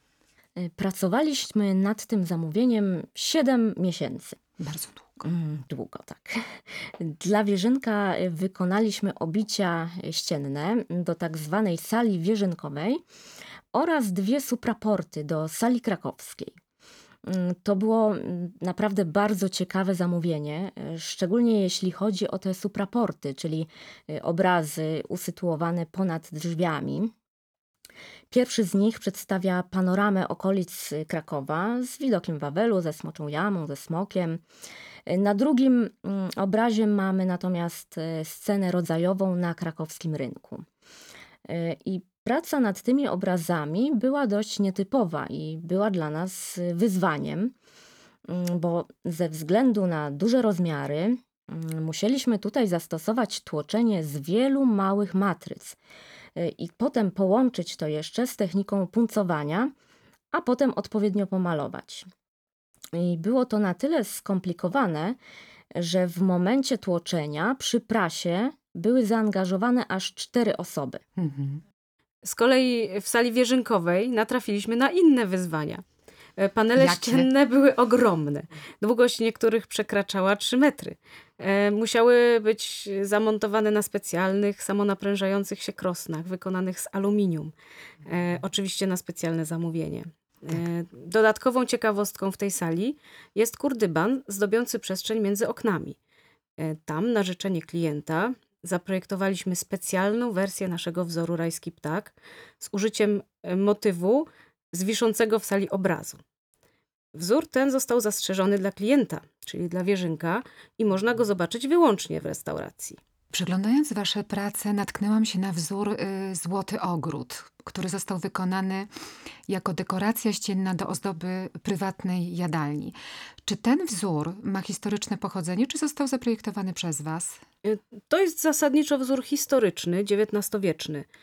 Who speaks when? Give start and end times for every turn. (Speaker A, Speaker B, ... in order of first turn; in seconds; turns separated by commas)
Speaker A: 0.6-4.4, Speaker B: 4.6-5.2, Speaker A: 5.2-13.0, Speaker A: 13.7-16.6, Speaker A: 17.2-27.1, Speaker A: 28.3-34.4, Speaker A: 35.1-40.6, Speaker A: 41.5-47.5, Speaker A: 48.3-55.8, Speaker A: 56.4-59.7, Speaker A: 60.3-62.1, Speaker A: 62.9-65.2, Speaker A: 65.7-71.0, Speaker B: 71.2-71.6, Speaker C: 72.2-75.8, Speaker C: 76.4-87.5, Speaker B: 76.8-77.3, Speaker C: 88.1-96.0, Speaker C: 96.6-106.2, Speaker C: 107.1-113.0, Speaker B: 113.3-118.9, Speaker B: 119.5-127.4, Speaker C: 127.6-131.1